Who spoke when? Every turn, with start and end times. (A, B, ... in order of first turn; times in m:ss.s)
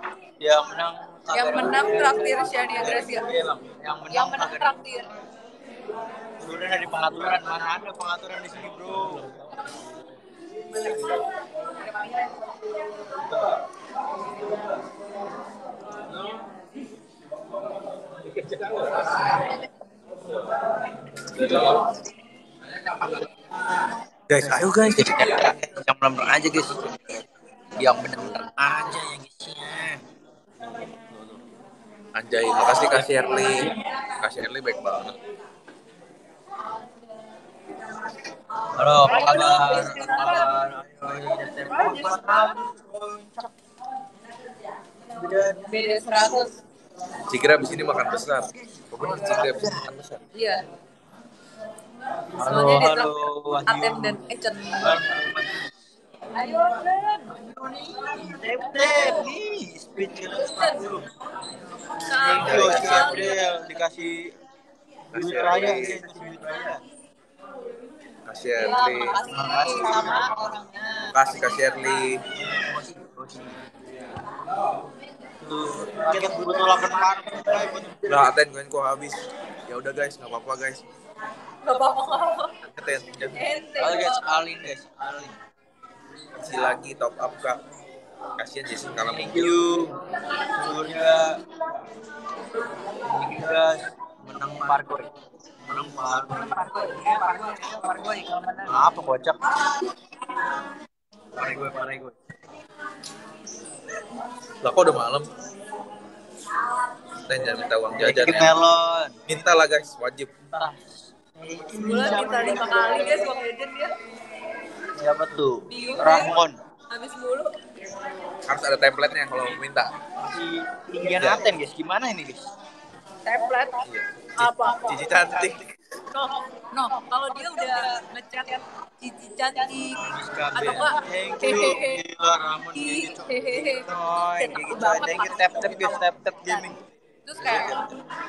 0:00.4-0:04.7 A
0:01.3-0:03.3 B
0:04.1-0:05.1 B
0:06.4-0:09.3 A
0:11.1-0:12.3 B
0:13.3-0:13.6 A
0:18.4-0:19.3 C
0:21.4-0:21.8 C
0:24.3-0:25.5 C
0:24.4-0:27.2 A
0:27.8-0:30.0 A
0:32.1-0:35.2 C
0:38.7-0:43.5 A
0:39.0-0:40.5 B
0:41.4-0:42.5 B
0:45.1-0:45.7 A
0:45.7-0:46.6 B
0:47.3-0:50.1 C
0:48.6-0:50.2 A
0:50.3-0:50.6 B
0:52.3-0:54.2 A
0:52.4-0:55.0 B
0:54.8-0:55.7 A
0:56.4-0:59.3 B
0:57.5-1:01.1 A
1:00.3-1:03.8 B
1:02.1-1:04.4 A
1:02.3-1:03.4 C
1:05.1-1:06.2 C
1:05.1-1:06.8 A
1:08.2-1:09.2 C
1:08.6-1:11.1 B
1:09.3-1:10.7 A
1:11.1-1:12.2 C
1:12.4-1:13.6 A
1:15.4-1:18.3 A
1:18.0-1:20.8 C
1:21.6-1:22.6 B
1:22.7-1:23.4 C
1:23.3-1:24.5 B
1:23.8-1:25.4 A
1:26.4-1:27.6 C
1:28.4-1:29.6 C
1:29.0-1:31.4 A
1:32.9-1:35.1 A
1:35.7-1:39.9 A
1:36.9-1:38.6 B
1:41.4-1:42.2 A
1:44.6-1:45.3 C
1:47.2-1:48.6 C
1:47.9-1:49.2 A
1:49.3-1:50.3 C
1:50.5-1:53.3 A
1:51.7-1:54.0 B
1:54.9-1:56.6 A
1:55.7-1:57.7 B
1:58.5-1:59.9 C
2:00.2-2:02.5 A
2:01.2-2:01.5 C
2:03.3-2:03.9 B
2:03.8-2:05.8 C
2:04.4-2:05.0 B
2:06.1-2:12.0 B
2:09.8-2:16.8 A
2:10.6-2:10.8 C
2:12.7-2:16.7 B
2:17.3-2:17.9 B
2:17.4-2:17.8 A